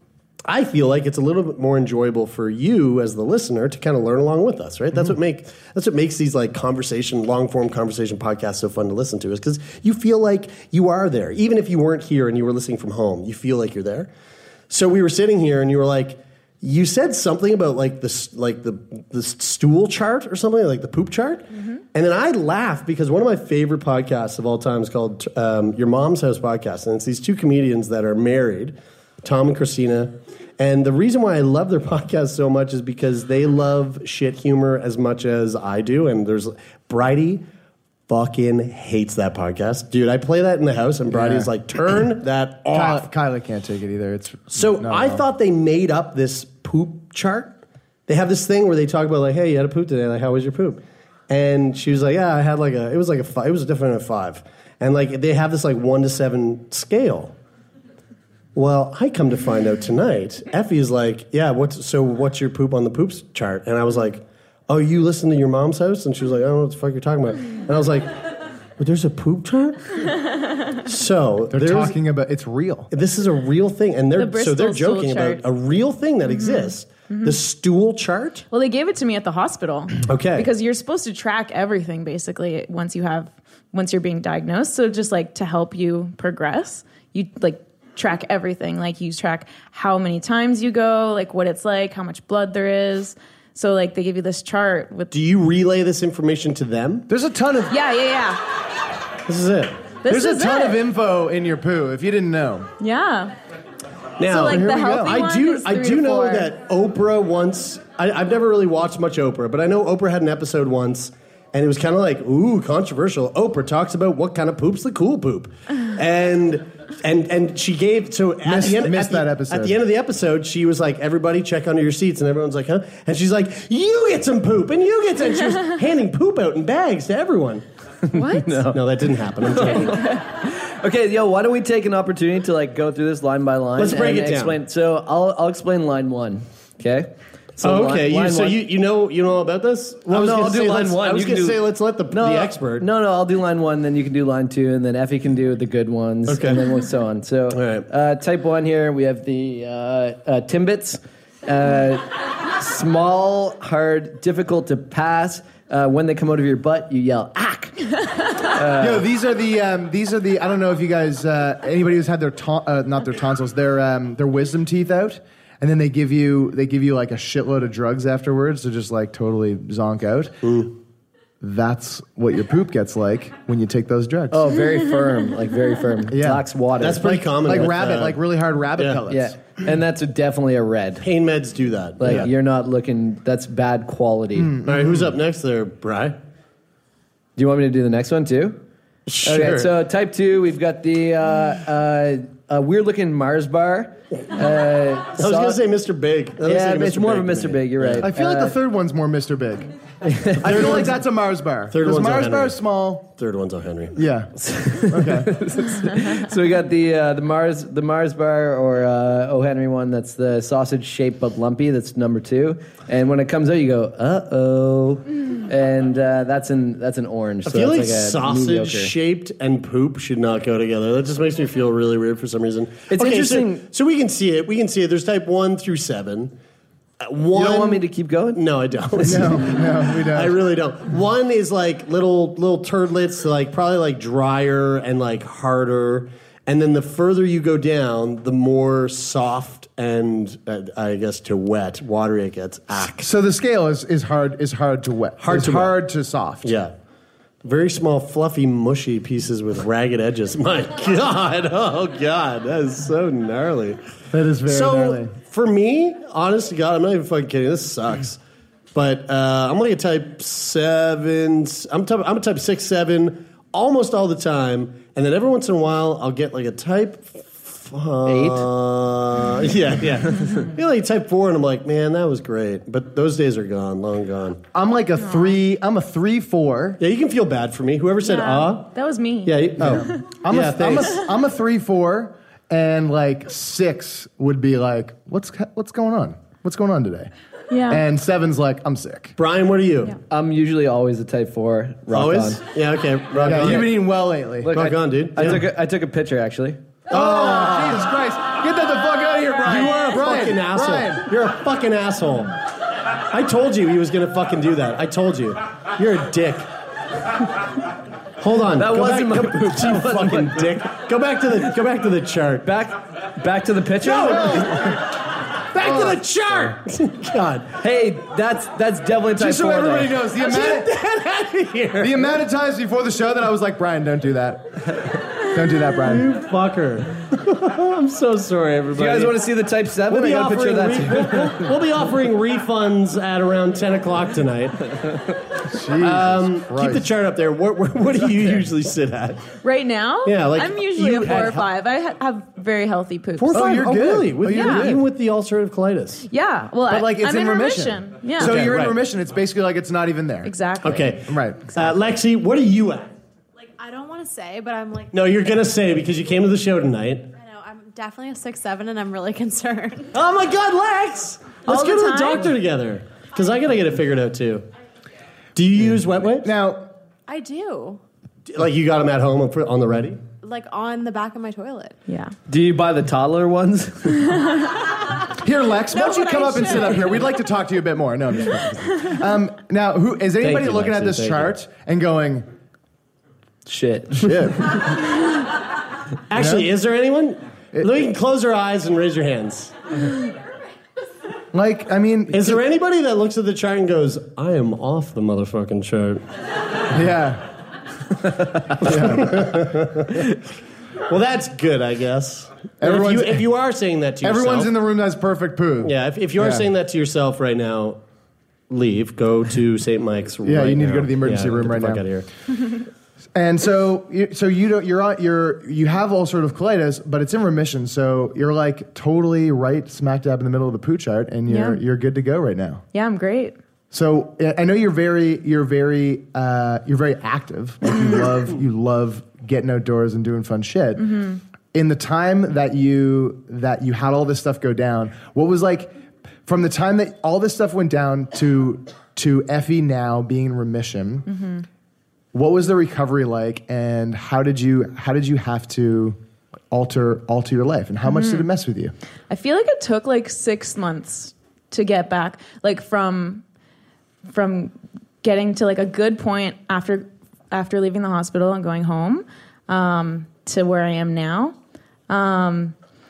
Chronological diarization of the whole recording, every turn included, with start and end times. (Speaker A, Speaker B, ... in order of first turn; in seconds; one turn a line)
Speaker A: 0.5-14.1
Speaker A: 14.7-37.4
Speaker A: 38.1-43.0
Speaker B: 41.1-41.5
Speaker B: 42.7-45.2
Speaker A: 44.5-47.5
Speaker A: 48.1-57.3
Speaker A: 58.5-68.2
Speaker A: 68.8-70.2
Speaker A: 70.8-72.0
Speaker B: 71.5-72.9
Speaker A: 72.9-78.5
Speaker C: 74.2-75.4
Speaker C: 76.3-77.3
Speaker C: 78.5-95.1
Speaker A: 80.0-80.5
Speaker A: 95.1-97.1
Speaker B: 97.1-97.7
Speaker C: 97.7-98.4
Speaker A: 99.2-99.8
Speaker C: 100.0-100.8
Speaker B: 100.1-102.7
Speaker C: 102.8-103.3
Speaker A: 104.2-127.6
Speaker C: 104.3-106.5
Speaker B: 104.3-105.2
Speaker B: 118.4-119.8
Speaker D: 128.1-138.6
Speaker C: 128.1-128.6
Speaker A: 128.7-130.0
Speaker A: 133.8-134.6
Speaker A: 137.6-142.9
Speaker D: 140.1-159.0
Speaker A: 146.3-146.6
Speaker A: 147.5-147.8
Speaker B: 158.8-170.6
Speaker A: 170.4-170.7
Speaker B: 171.4-174.5
Speaker D: 174.3-177.7
Speaker B: 176.1-179.3
Speaker A: 176.8-178.2
Speaker D: 179.1-181.1
Speaker A: 181.0-182.3
Speaker D: 182.0-184.6
Speaker B: 184.3-185.1
Speaker A: 184.6-186.2
Speaker D: 187.3-188.6
Speaker A: 189.1-189.7
Speaker D: 189.2-195.6
Speaker A: 195.2-198.1
Speaker D: 196.4-198.5
Speaker B: 198.0-199.7
Speaker D: 200.1-200.9
Speaker B: 200.4-203.1
Speaker A: 200.4-200.9
Speaker A: 201.7-204.0
Speaker B: 203.9-204.3
Speaker D: 204.4-218.9
Speaker B: 204.9-205.3
Speaker A: 217.4-226.3
Speaker D: 222.9-223.6
Speaker A: 227.0-243.1
Speaker D: 227.3-229.4
Speaker B: 229.0-230.4
Speaker B: 243.0-246.5
Speaker A: 245.2-245.8
Speaker A: 246.4-246.7
Speaker A: 247.4-253.8
Speaker B: 254.1-255.1
Speaker A: 254.4-258.2
Speaker A: 258.7-274.4
Speaker D: 268.1-268.5
Speaker B: 274.5-276.8
Speaker C: 275.0-275.3
Speaker A: 276.8-278.7
Speaker C: 278.0-280.0
Speaker A: 279.2-281.0
Speaker B: 279.6-287.1
Speaker C: 287.5-287.8
Speaker B: 287.7-289.1
Speaker A: 289.2-290.0
Speaker D: 290.1-292.4
Speaker A: 291.9-293.8
Speaker B: 293.2-294.5
Speaker D: 293.2-293.7
Speaker D: 294.4-296.6
Speaker A: 294.5-295.4
Speaker A: 296.9-297.9
Speaker B: 296.9-301.1
Speaker A: 299.4-302.3
Speaker A: 303.1-306.5
Speaker A: 308.2-312.5
Speaker D: 308.6-310.5
Speaker D: 312.4-314.7
Speaker A: 313.8-314.8
Speaker B: 313.9-314.7
Speaker A: 315.5-317.6
Speaker B: 315.6-315.9
Speaker D: 317.6-320.0
Speaker B: 319.1-320.7
Speaker A: 320.1-322.1
Speaker B: 321.8-326.1
Speaker A: 325.8-329.2
Speaker D: 328.7-331.5
Speaker A: 329.9-334.7
Speaker B: 335.4-336.9
Speaker A: 335.8-339.2
Speaker C: 339.4-343.6
Speaker A: 340.0-341.4
Speaker A: 343.2-346.1
Speaker B: 343.3-344.8
Speaker C: 344.3-344.7
Speaker C: 346.1-348.4
Speaker B: 346.7-350.3
Speaker A: 348.2-348.8
Speaker C: 350.2-351.0
Speaker A: 350.6-352.9
Speaker B: 351.0-351.5
Speaker E: 353.3-354.9
Speaker A: 354.9-357.1
Speaker E: 357.1-359.9
Speaker A: 359.9-364.4
Speaker C: 361.5-362.3
Speaker A: 365.4-366.3
Speaker B: 366.2-366.7
Speaker E: 367.1-367.8
Speaker A: 368.3-370.0
Speaker E: 370.2-371.8
Speaker C: 371.9-372.1
Speaker D: 372.3-374.4
Speaker B: 375.2-382.3
Speaker E: 375.7-377.0
Speaker A: 380.2-381.3
Speaker D: 383.4-384.6
Speaker B: 383.9-384.6
Speaker A: 386.1-389.5
Speaker B: 386.1-386.5
Speaker B: 391.3-392.4
Speaker A: 392.1-396.0
Speaker B: 396.7-397.2
Speaker B: 398.6-399.5
Speaker A: 398.6-399.9
Speaker A: 400.9-404.5
Speaker B: 402.6-403.3
Speaker B: 404.0-406.5
Speaker A: 405.6-407.8
Speaker A: 408.5-412.1
Speaker B: 410.2-411.8
Speaker B: 413.1-422.6
Speaker C: 421.3-421.6
Speaker C: 422.7-423.4
Speaker B: 423.7-431.0
Speaker C: 430.8-431.2
Speaker B: 431.5-435.7
Speaker B: 436.2-441.1
Speaker C: 441.1-441.4
Speaker B: 442.1-446.0
Speaker B: 446.5-448.7
Speaker C: 447.9-448.2
Speaker C: 449.1-453.2
Speaker C: 454.1-461.4
Speaker C: 461.9-462.5